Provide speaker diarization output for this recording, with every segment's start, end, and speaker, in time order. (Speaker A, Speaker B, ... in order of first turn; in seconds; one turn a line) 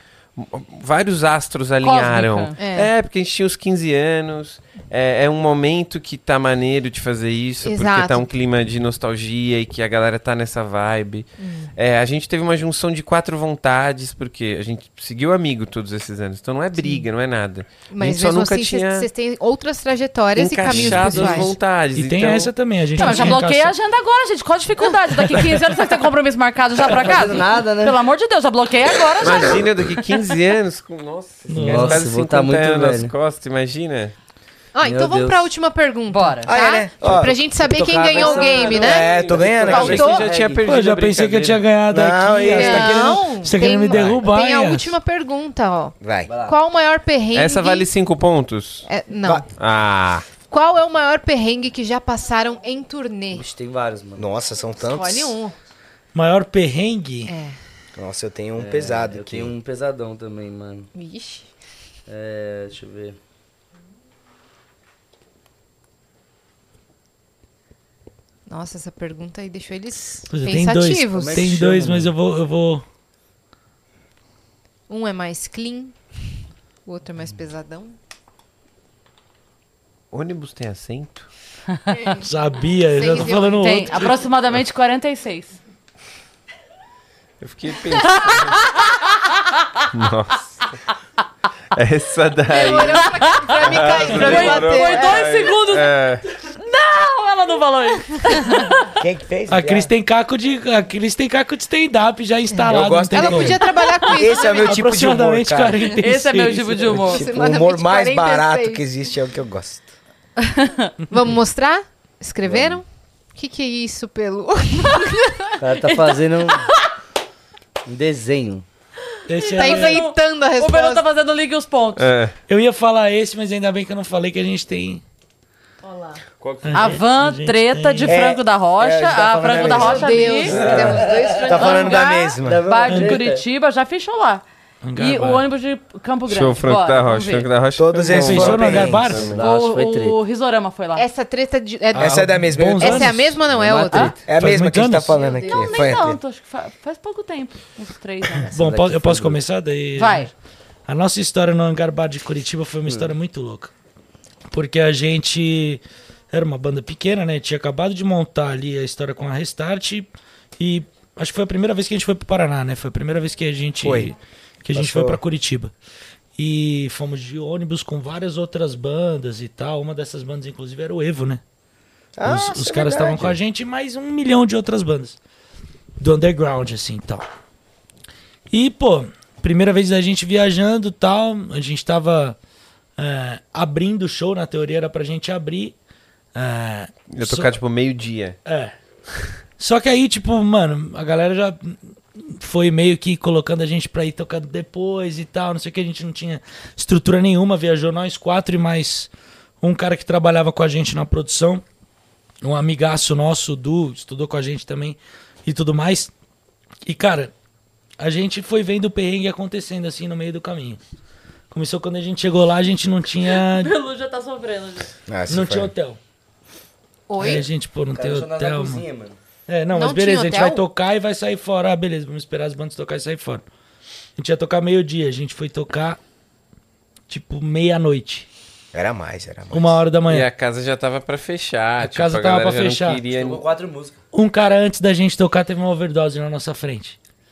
Speaker A: 0.4-19.1
Speaker B: 1.8-2.5
Speaker C: 2.6-2.9
Speaker C: 7.6-8.2
Speaker C: 11.4-11.7
Speaker C: 16.8-17.1
Speaker C: 17.9-21.5
Speaker A: 20.4-22.5
Speaker D: 20.7-23.8
Speaker B: 23.0-30.2
Speaker D: 25.1-25.6
Speaker E: 26.9-28.0
Speaker A: 29.2-34.1
Speaker D: 31.5-32.1
Speaker E: 31.5-33.1
Speaker C: 34.8-39.1
Speaker E: 34.8-35.5
Speaker B: 36.1-36.5
Speaker F: 36.4-37.4
Speaker E: 37.1-40.7
Speaker A: 38.0-41.6
Speaker F: 38.8-40.1
Speaker C: 39.7-40.3
Speaker D: 40.6-45.0
Speaker F: 41.9-43.0
Speaker C: 42.5-47.9
Speaker A: 43.9-44.2
Speaker F: 46.0-46.3
Speaker E: 46.3-46.6
Speaker A: 47.3-48.9
Speaker C: 48.9-49.5
Speaker A: 49.6-50.2
Speaker C: 50.5-53.5
Speaker E: 53.3-54.2
Speaker F: 54.2-55.4
Speaker C: 54.8-55.5
Speaker D: 56.1-57.3
Speaker C: 57.3-57.5
Speaker F: 58.0-59.5
Speaker E: 58.6-60.9
Speaker C: 60.9-61.5
Speaker E: 62.1-63.2
Speaker C: 68.5-71.5
Speaker D: 70.3-72.8
Speaker E: 71.1-72.2
Speaker C: 74.9-76.0
Speaker C: 76.9-78.0
Speaker A: 80.1-81.3
Speaker C: 81.9-82.3
Speaker D: 82.2-84.2
Speaker C: 82.9-83.9
Speaker B: 83.5-85.6
Speaker A: 87.4-88.6
Speaker A: 89.9-90.7
Speaker A: 91.8-96.2
Speaker C: 92.5-95.4
Speaker B: 93.2-95.9
Speaker F: 94.1-94.7
Speaker B: 96.5-98.9
Speaker F: 99.0-99.9
Speaker D: 99.5-103.7
Speaker C: 102.5-104.9
Speaker F: 102.7-105.9
Speaker B: 103.7-104.2
Speaker D: 104.6-107.0
Speaker B: 106.0-107.2
Speaker C: 107.0-108.8
Speaker F: 107.0-109.9
Speaker B: 110.5-110.9
Speaker C: 111.1-115.6
Speaker F: 112.5-112.8
Speaker E: 115.6-116.6
Speaker B: 115.8-116.9
Speaker E: 117.9-118.6
Speaker D: 119.3-120.0
Speaker B: 119.4-122.0
Speaker C: 119.6-121.0
Speaker A: 122.0-122.4
Speaker D: 122.5-125.0
Speaker C: 125.8-126.2
Speaker A: 126.4-127.0
Speaker D: 126.6-128.2
Speaker B: 126.7-130.6
Speaker F: 128.1-132.7
Speaker C: 129.7-132.0
Speaker E: 130.5-131.7
Speaker A: 130.5-131.0
Speaker B: 131.6-134.4
Speaker E: 132.4-133.4
Speaker D: 132.9-133.2
Speaker D: 134.8-135.5
Speaker B: 135.0-137.5
Speaker A: 136.3-139.3
Speaker F: 137.8-139.2
Speaker D: 138.1-139.3
Speaker E: 138.9-140.2
Speaker B: 139.3-141.1
Speaker C: 141.0-142.2
Speaker D: 141.9-143.3
Speaker F: 142.0-143.3
Speaker C: 142.8-144.1
Speaker E: 143.5-144.3
Speaker F: 144.3-146.2
Speaker D: 144.3-145.2
Speaker C: 145.2-145.9
Speaker B: 145.3-148.5
Speaker E: 148.5-149.4
Speaker D: 148.5-150.3
Speaker B: 150.0-150.3
Speaker D: 150.9-153.7
Speaker E: 152.9-153.1
Speaker D: 154.5-155.8
Speaker D: 156.3-165.7
Speaker F: 163.8-164.1
Speaker F: 164.7-165.2
Speaker D: 166.4-171.4
Speaker F: 172.2-173.4
Speaker D: 172.2-175.2
Speaker D: 176.0-177.3
Speaker D: 178.5-182.4
Speaker D: 183.0-185.8
Speaker D: 186.3-187.6
Speaker A: 187.1-188.4
Speaker D: 188.5-188.7
Speaker D: 189.6-199.1
Speaker D: 199.6-201.6
Speaker D: 202.4-206.1
Speaker D: 206.8-207.3
Speaker D: 208.0-210.8
Speaker D: 211.5-213.7
Speaker B: 213.3-214.9
Speaker F: 215.1-215.7
Speaker D: 215.3-216.0
Speaker C: 217.1-217.4
Speaker D: 217.2-218.8
Speaker E: 217.9-219.2
Speaker D: 219.5-223.4
Speaker C: 219.7-220.6
Speaker D: 224.2-226.0
Speaker D: 227.1-228.3
Speaker F: 228.7-229.8
Speaker D: 229.5-230.3
Speaker A: 230.1-233.4
Speaker D: 231.8-233.0
Speaker E: 233.1-234.0
Speaker D: 234.1-237.0